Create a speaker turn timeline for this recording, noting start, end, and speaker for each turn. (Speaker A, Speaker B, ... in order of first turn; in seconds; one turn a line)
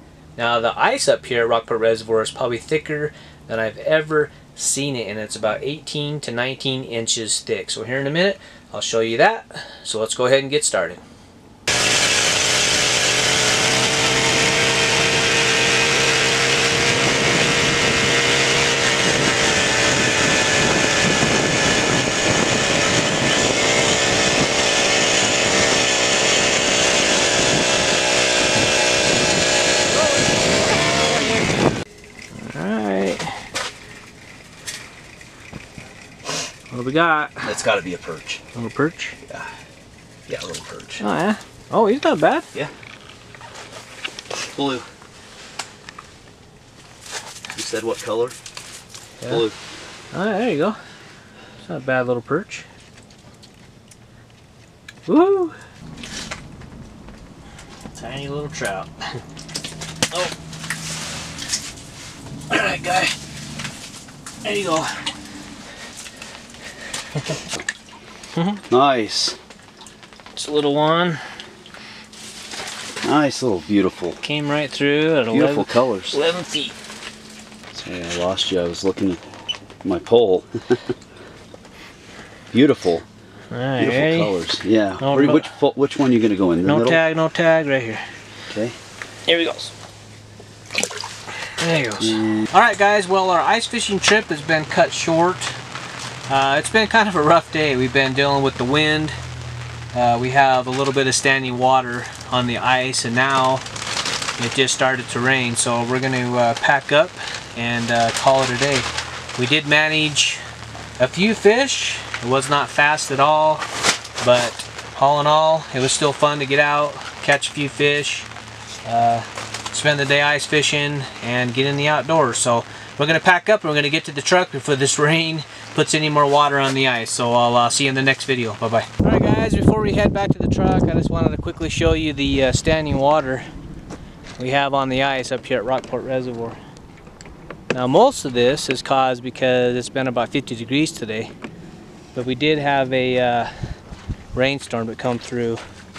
Speaker A: 0.4-11.0
Speaker A: 30.9-31.4
Speaker A: 32.3-33.4
Speaker A: 36.7-37.5
Speaker B: 37.4-38.4
Speaker A: 38.5-39.2
Speaker B: 40.3-41.0
Speaker A: 41.0-42.5
Speaker B: 44.5-44.9
Speaker B: 47.5-48.3
Speaker B: 49.3-49.5
Speaker A: 50.1-50.8
Speaker A: 51.6-52.6
Speaker A: 55.1-55.5
Speaker A: 57.9-58.9
Speaker A: 62.5-63.1
Speaker A: 64.4-65.0
Speaker A: 68.3-68.6
Speaker B: 68.7-69.4
Speaker A: 70.3-71.2
Speaker B: 73.0-74.2
Speaker A: 74.2-76.7
Speaker B: 75.3-76.2
Speaker B: 77.7-79.2
Speaker B: 79.8-80.9
Speaker B: 82.5-83.0
Speaker A: 83.5-84.3
Speaker B: 83.8-87.0
Speaker A: 85.0-85.5
Speaker A: 86.6-88.0
Speaker B: 88.5-88.8
Speaker A: 89.3-89.7
Speaker A: 91.6-95.6
Speaker B: 92.0-92.5
Speaker A: 96.3-99.1
Speaker A: 99.9-103.6
Speaker A: 104.4-110.4
Speaker A: 111.0-113.6
Speaker A: 114.2-118.3
Speaker A: 118.8-133.5
Speaker A: 134.4-136.6
Speaker A: 137.7-141.3
Speaker A: 142.1-143.5
Speaker A: 144.3-145.6